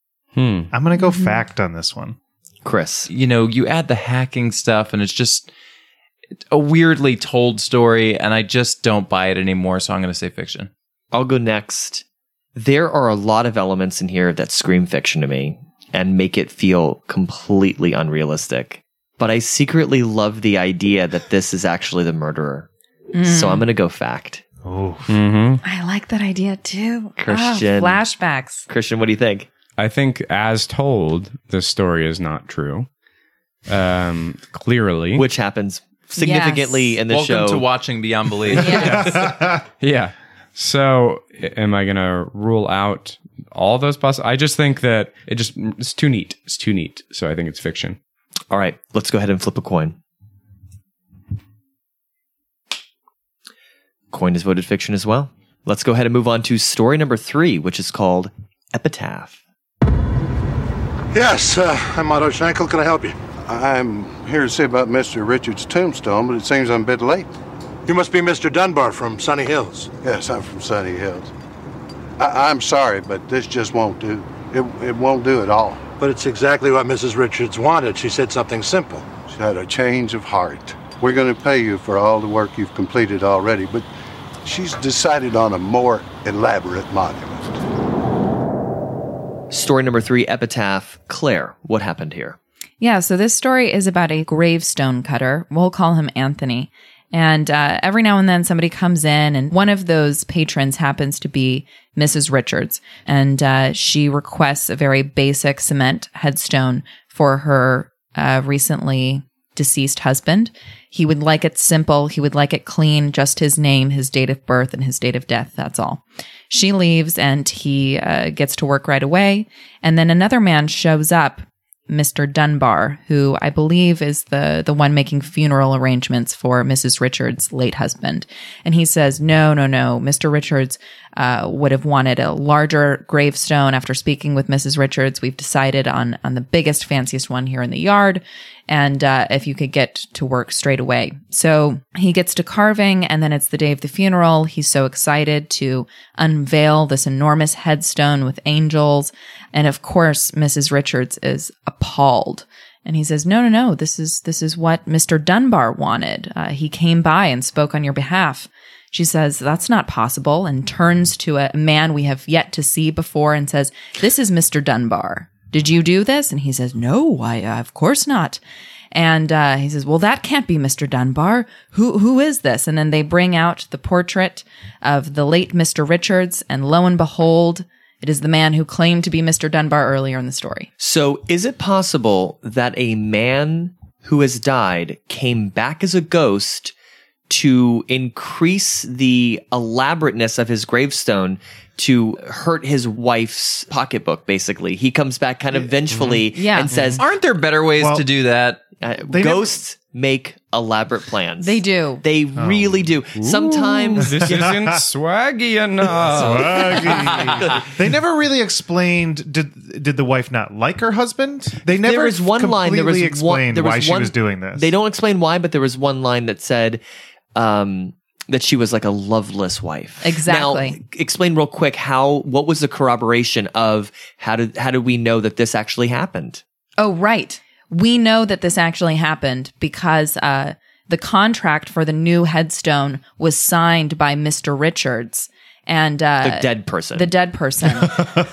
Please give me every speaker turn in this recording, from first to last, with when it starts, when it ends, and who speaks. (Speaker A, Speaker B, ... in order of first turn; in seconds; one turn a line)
Speaker A: 0.3-0.7
Speaker B: 0.7-2.1
Speaker C: 0.9-1.4
Speaker D: 2.6-3.1
Speaker E: 3.1-5.5
Speaker E: 6.5-10.7
Speaker D: 11.1-12.0
Speaker D: 12.5-22.7
Speaker C: 23.1-23.7
Speaker D: 23.2-24.4
Speaker B: 24.6-25.2
Speaker A: 25.1-25.6
Speaker C: 25.6-28.6
Speaker D: 27.2-28.0
Speaker D: 28.7-29.5
Speaker A: 29.8-32.9
Speaker A: 33.7-35.2
Speaker D: 35.1-37.7
Speaker C: 36.1-37.0
Speaker E: 37.1-39.1
Speaker C: 38.5-39.1
Speaker B: 38.6-39.6
Speaker A: 38.9-39.2
Speaker A: 39.8-48.0
Speaker D: 48.5-50.0
Speaker D: 54.1-59.4
Speaker F: 61.1-67.3
Speaker F: 67.8-71.3
Speaker F: 72.2-83.8
Speaker F: 84.4-87.6
Speaker D: 89.5-92.4
Speaker C: 92.8-168.4
Speaker C: 168.9-180.7
Speaker D: 180.8-186.7
Speaker D: 187.3-197.0
Speaker C: 196.3-196.7
Speaker E: 197.0-198.6
Speaker B: 197.8-198.0
Speaker D: 198.8-204.5
Speaker B: 199.1-199.5
Speaker C: 201.4-202.0
Speaker B: 202.3-202.9
Speaker A: 203.2-207.0
Speaker B: 204.0-204.8
Speaker B: 205.9-214.7
Speaker D: 211.8-216.8
Speaker D: 217.3-226.4
Speaker C: 220.0-220.8
Speaker C: 226.8-238.1
Speaker D: 236.2-237.1